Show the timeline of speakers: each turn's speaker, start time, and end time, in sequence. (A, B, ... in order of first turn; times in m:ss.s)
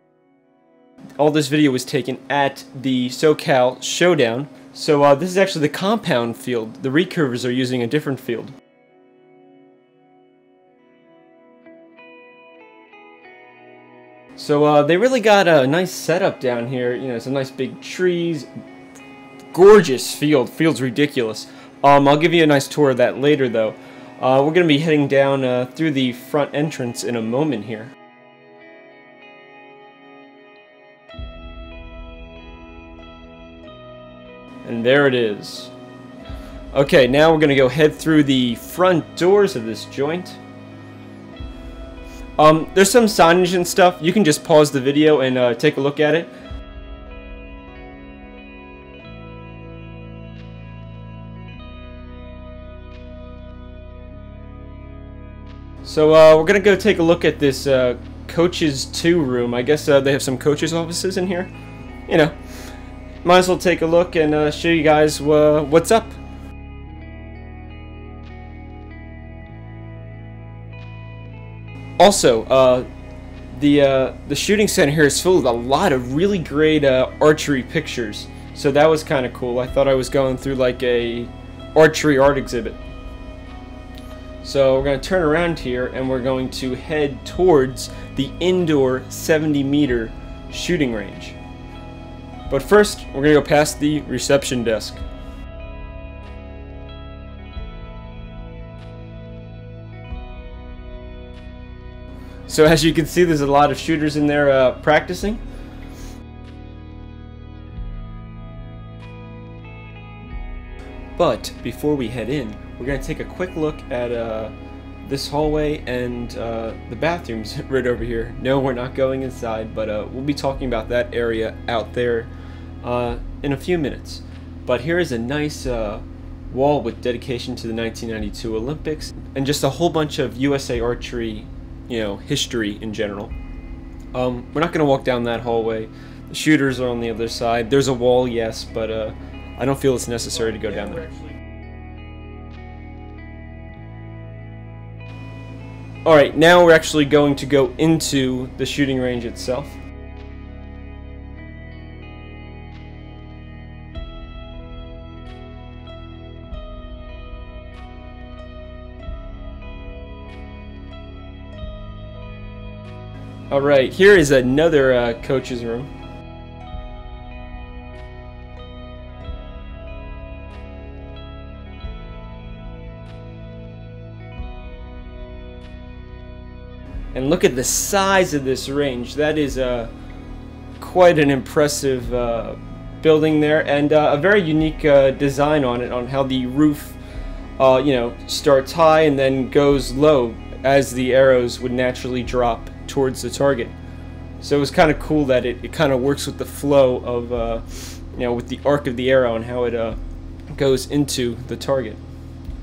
0:01.2-0:08.5 A
0:14.4-0:18.5 A
0:19.5-0:27.9 A
0:34.6-0:35.7 A
0:36.7-0:40.4 A
0:42.4-0:46.3 A
0:55.8-1:01.5 A
1:02.1-1:02.3 A
1:03.2-1:06.2 A
1:12.0-1:12.8 A
1:13.5-1:22.8 A
1:24.4-1:31.4 A
1:32.5-1:35.0 A
1:42.5-1:45.4 A
1:51.2-1:54.5 A
1:55.0-2:02.3 A
2:02.8-2:13.3 A
2:14.1-2:21.1 A
2:26.0-2:29.8 A
2:43.5-2:45.9 A
2:57.1-2:59.9 A
3:00.8-3:07.0 A
3:07.6-3:13.7 A
3:14.4-3:20.0 A
3:20.5-3:22.0 A